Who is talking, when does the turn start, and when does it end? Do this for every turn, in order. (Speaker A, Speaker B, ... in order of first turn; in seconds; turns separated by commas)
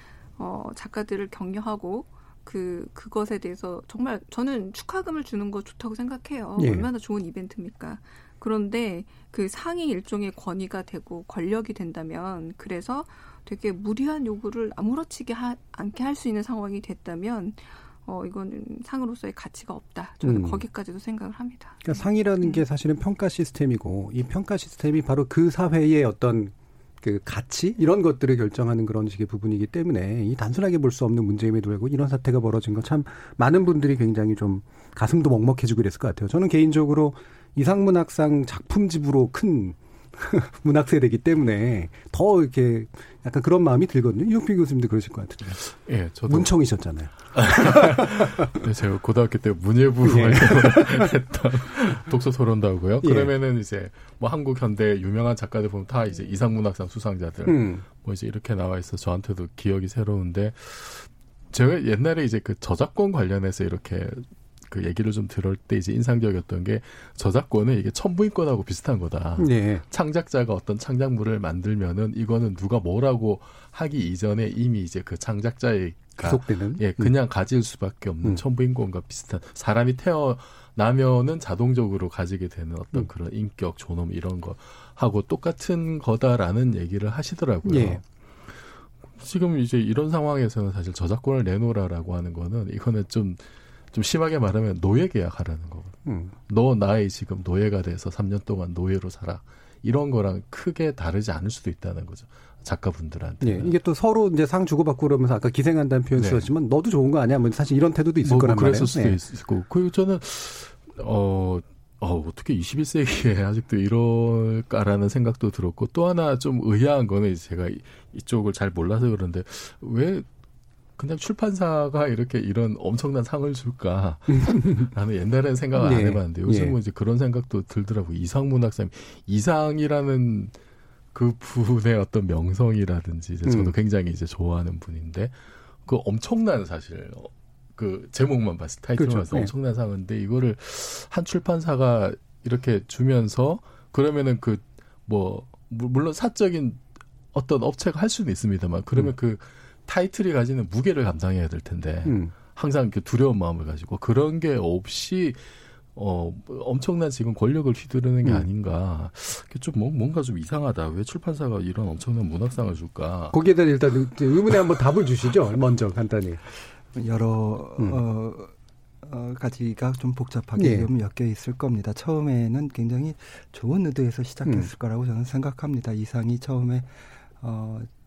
Speaker A: 0.4-22.6, Speaker B: 6.6-6.9, Speaker B: 20.2-20.6, Speaker B: 21.8-45.6, Speaker C: 45.7-46.5, Speaker B: 46.3-48.5, Speaker C: 47.3-88.0, Speaker B: 50.0-51.1, Speaker B: 53.0-53.3, Speaker B: 57.5-57.8, Speaker B: 69.4-69.8, Speaker B: 76.2-77.1, Speaker B: 87.6-88.0, Speaker C: 89.2-103.7, Speaker B: 96.0-96.3, Speaker B: 103.4-109.2, Speaker C: 106.2-106.5, Speaker C: 108.2-120.2, Speaker C: 121.0-130.5, Speaker B: 124.3-124.9, Speaker B: 125.8-126.7, Speaker C: 131.1-135.3, Speaker B: 133.4-133.7, Speaker C: 135.8-146.8, Speaker B: 139.0-139.5, Speaker C: 147.3-155.4, Speaker B: 152.0-152.3, Speaker C: 155.9-163.4, Speaker B: 163.3-166.4, Speaker D: 166.9-177.9, Speaker B: 170.6-170.9, Speaker B: 174.4-174.7